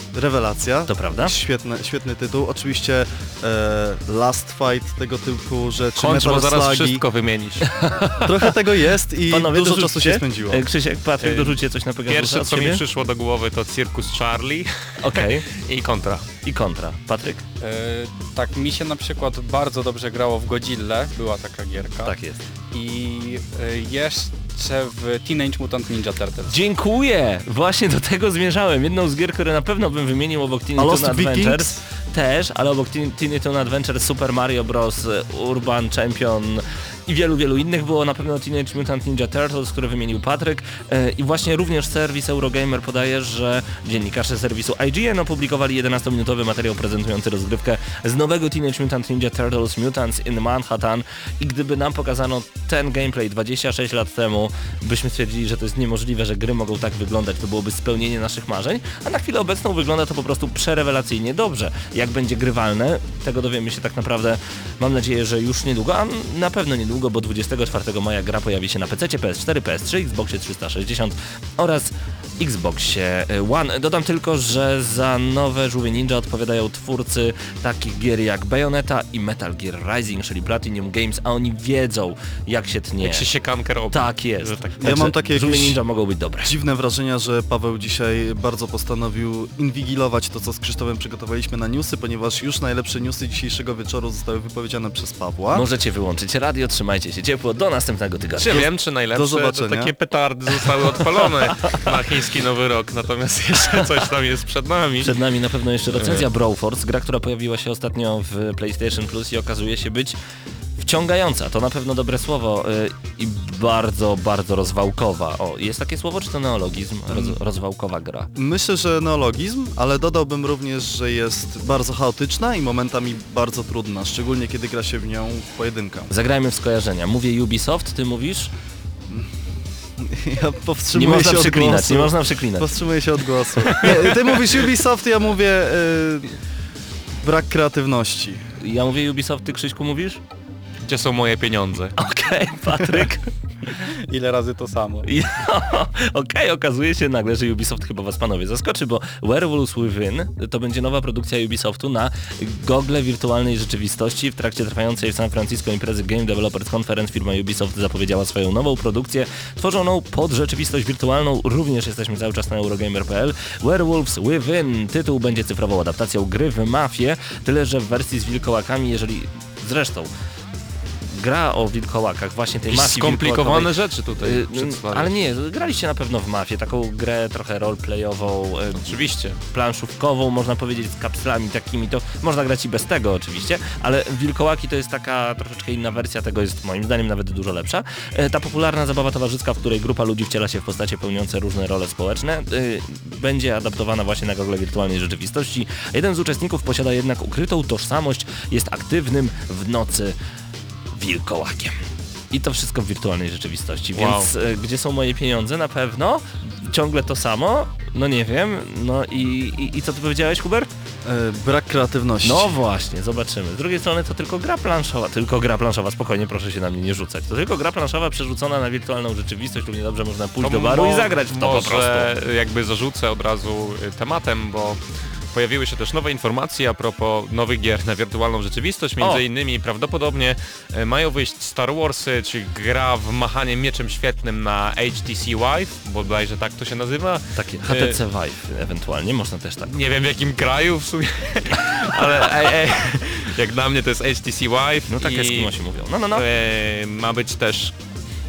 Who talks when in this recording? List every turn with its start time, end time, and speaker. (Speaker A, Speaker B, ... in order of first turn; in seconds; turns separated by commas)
Speaker A: 0.1-7.0, Speaker B: 0.9-1.3, Speaker C: 6.0-8.2, Speaker A: 8.2-10.6, Speaker B: 9.3-12.8, Speaker C: 11.2-16.3, Speaker B: 15.0-15.5, Speaker B: 16.4-17.4, Speaker D: 17.6-22.1, Speaker B: 22.0-22.4, Speaker D: 22.7-26.5, Speaker B: 26.5-83.3, Speaker A: 30.8-31.8, Speaker C: 83.0-85.0, Speaker B: 83.9-86.5, Speaker A: 84.8-85.8, Speaker A: 86.4-95.7, Speaker B: 95.5-98.7, Speaker C: 98.4-105.2, Speaker A: 99.1-99.9, Speaker B: 105.0-110.2, Speaker C: 105.9-106.3, Speaker B: 110.8-118.3, Speaker A: 117.1-117.4, Speaker A: 118.3-126.1, Speaker B: 126.1-128.5, Speaker A: 130.0-136.3, Speaker B: 130.9-132.7, Speaker A: 137.2-138.4, Speaker B: 138.6-140.2, Speaker C: 140.8-141.9, Speaker B: 142.0-143.3, Speaker D: 144.1-145.1, Speaker B: 145.0-170.1, Speaker B: 171.1-200.2, Speaker C: 172.7-175.1, Speaker C: 178.8-179.4, Speaker B: 200.9-201.7, Speaker B: 202.3-210.7, Speaker C: 203.9-204.3, Speaker A: 211.0-212.6, Speaker B: 212.2-222.1, Speaker C: 220.4-224.8, Speaker C: 225.3-238.0, Speaker B: 237.3-239.7, Speaker C: 239.7-245.6, Speaker B: 244.9-246.2, Speaker C: 246.1-247.7